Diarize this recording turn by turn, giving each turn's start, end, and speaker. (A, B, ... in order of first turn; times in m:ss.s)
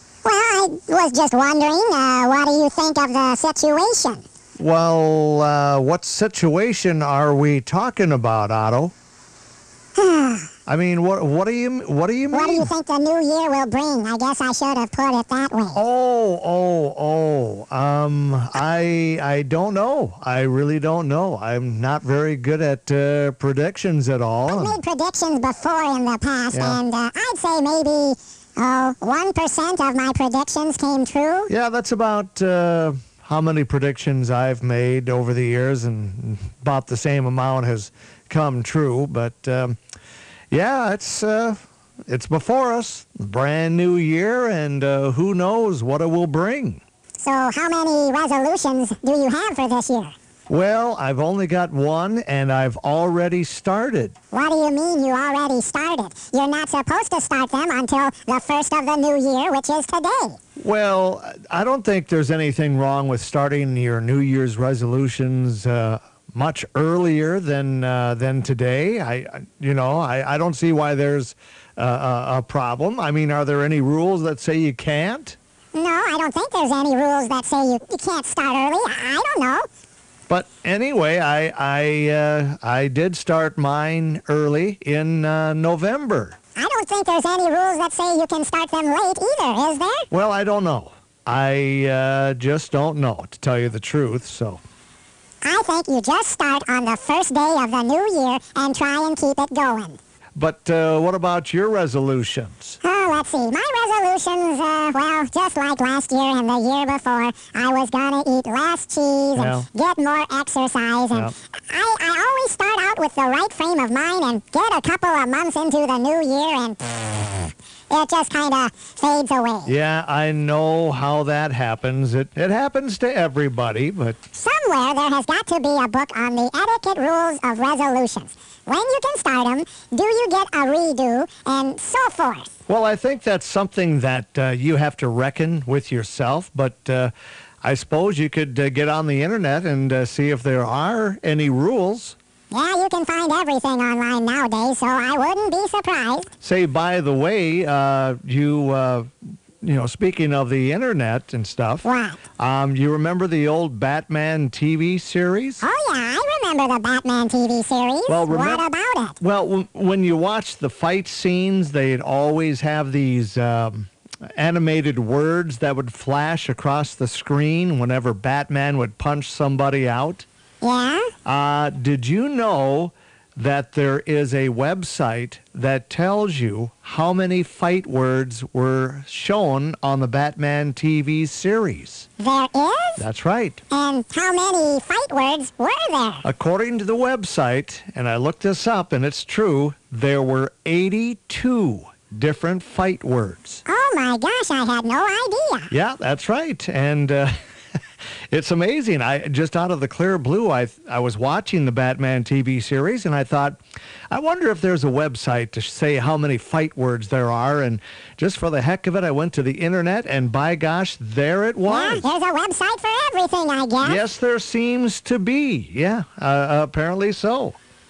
0:00.2-0:04.2 A
0:04.6-0:08.9 B
0:10.0-0:10.5 A
0:10.7-0:12.7 B
0:12.3-0:15.8 A
0:15.7-0:24.8 B
0:24.5-0:31.5 A
0:26.5-0:26.8 B
0:31.5-0:39.8 B
0:40.5-0:46.8 B
0:47.2-0:50.1 A
0:50.5-0:54.1 B
0:54.3-1:00.4 A
1:00.6-1:15.4 B
1:15.7-1:19.7 A
1:20.3-1:26.4 B
1:26.6-1:30.1 A
1:30.1-1:34.6 B
1:35.4-1:40.0 A
1:40.4-1:42.8 B
1:42.8-1:59.7 A
1:49.4-1:49.7 B
1:59.7-2:04.2 B
2:04.3-2:12.5 A
2:12.7-2:22.2 B
2:22.5-2:26.3 A
2:26.4-2:29.1 B
2:29.6-2:31.9 B
2:31.8-2:32.2 A
2:32.4-2:35.6 B
2:35.6-2:39.2 A
2:38.1-2:38.6 B
2:39.2-2:50.3 B
2:50.6-2:51.1 A
2:51.2-3:02.1 B
3:02.2-3:03.0 A
3:03.0-3:03.6 B
3:03.7-3:06.2 A
3:06.2-3:13.6 B
3:13.7-3:15.7 A
3:15.7-3:17.4 B
3:18.3-3:23.6 B
3:24.1-3:32.0 B
3:31.7-3:34.0 A
3:33.8-3:37.6 B